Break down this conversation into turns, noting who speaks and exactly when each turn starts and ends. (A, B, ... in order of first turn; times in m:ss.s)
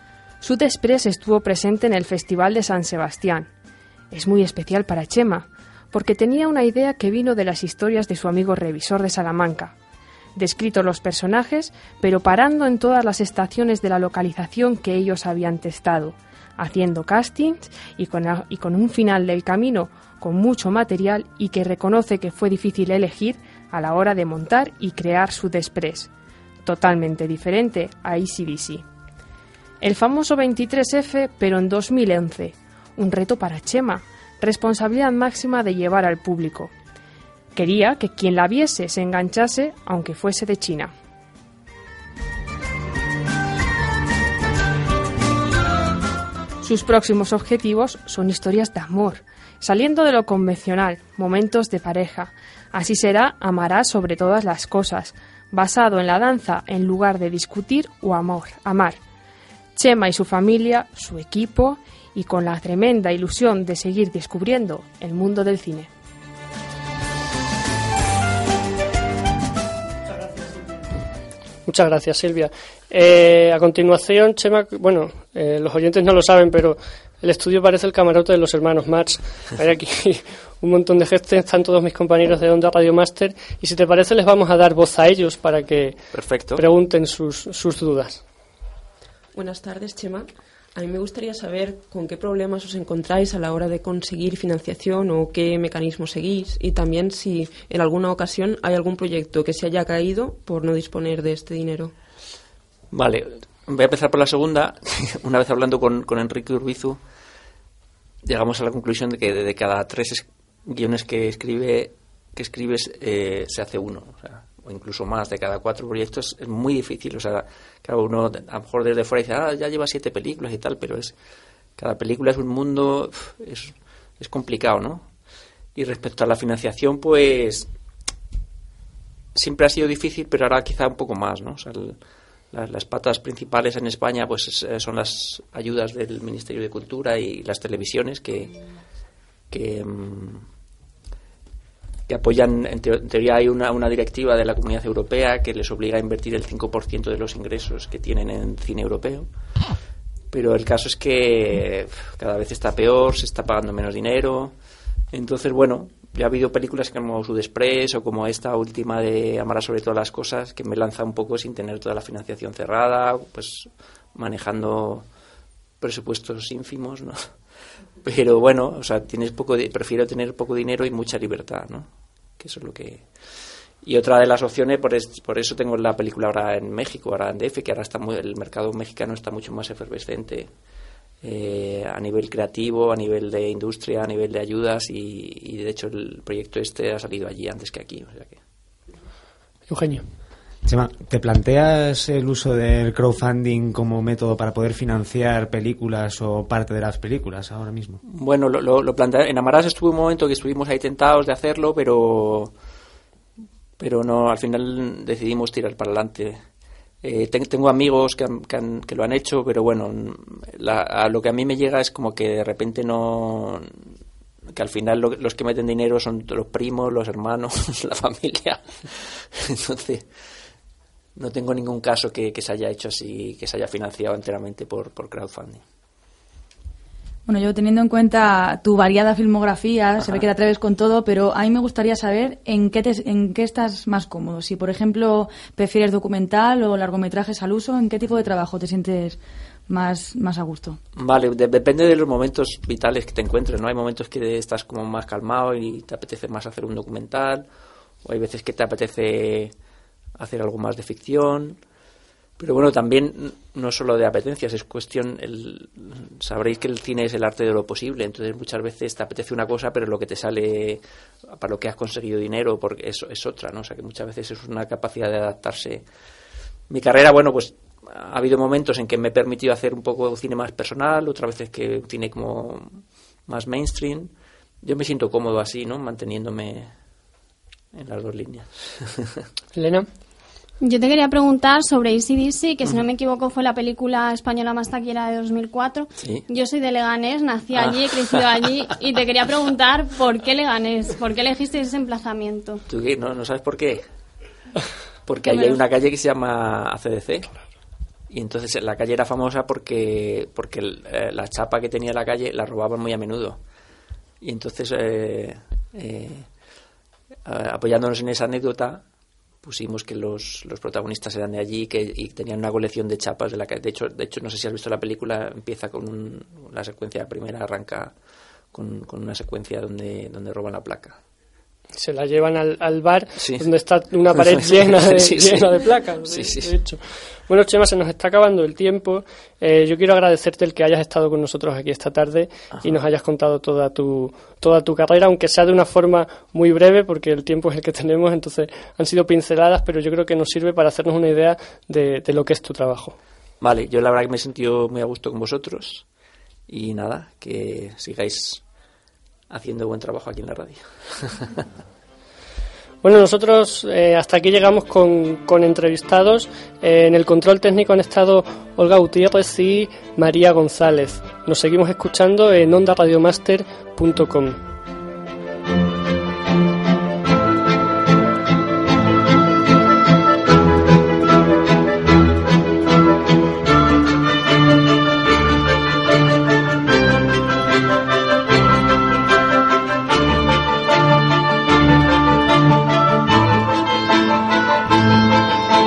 0:00.4-0:03.5 A
0:04.1-0:09.7 A
0:10.4-0:26.1 A
0:26.6-0:28.8 A
0:29.8-0:36.7 A
0:37.5-0:40.9 A
0:46.6-0:59.0 A
0:59.7-1:05.9 A
1:11.6-1:26.0 B
1:26.1-1:26.6 C
1:26.6-1:28.2 B
1:29.3-1:41.9 D
1:42.9-1:47.0 C
1:48.2-2:01.1 C
2:01.8-2:05.0 C
2:05.8-2:07.7 C
2:09.3-2:12.0 C
2:12.5-2:18.5 C
2:19.5-2:20.4 C
2:22.1-2:29.3 C
2:30.3-2:34.5 C
2:35.1-2:45.0 C
2:45.8-2:47.3 C
2:48.0-2:53.0 C
2:53.8-3:00.5 C
3:01.2-3:08.4 C
3:09.7-3:10.0 B
3:10.6-3:18.0 E
3:18.0-3:22.5 C
3:23.8-3:26.4 C
3:27.0-3:33.9 C
3:34.5-3:40.0 C
3:41.2-3:45.6 C
3:47.2-3:59.2 F
3:50.0-3:50.2 C
3:59.7-4:00.8 F
4:01.0-4:07.5 C
4:08.0-4:09.5 C
4:10.2-4:11.6 C
4:12.4-4:25.8 C
4:26.7-4:36.7 C
4:37.7-4:39.2 C
4:39.6-4:39.9 B
4:40.6-4:52.6 G
4:46.0-4:46.2 C
4:47.5-4:47.8 C
4:52.7-4:53.8 C
4:55.0-4:57.3 C
4:58.1-5:03.4 C
5:04.2-5:06.3 C
5:07.2-5:08.8 C
5:09.4-5:17.9 C
5:18.5-5:21.0 C
5:21.8-5:43.0 B
5:23.2-5:23.4 C
5:24.2-5:26.5 C
5:43.4-5:45.8 C
5:46.5-5:48.4 C
5:49.3-5:51.4 C
5:52.8-6:04.4 B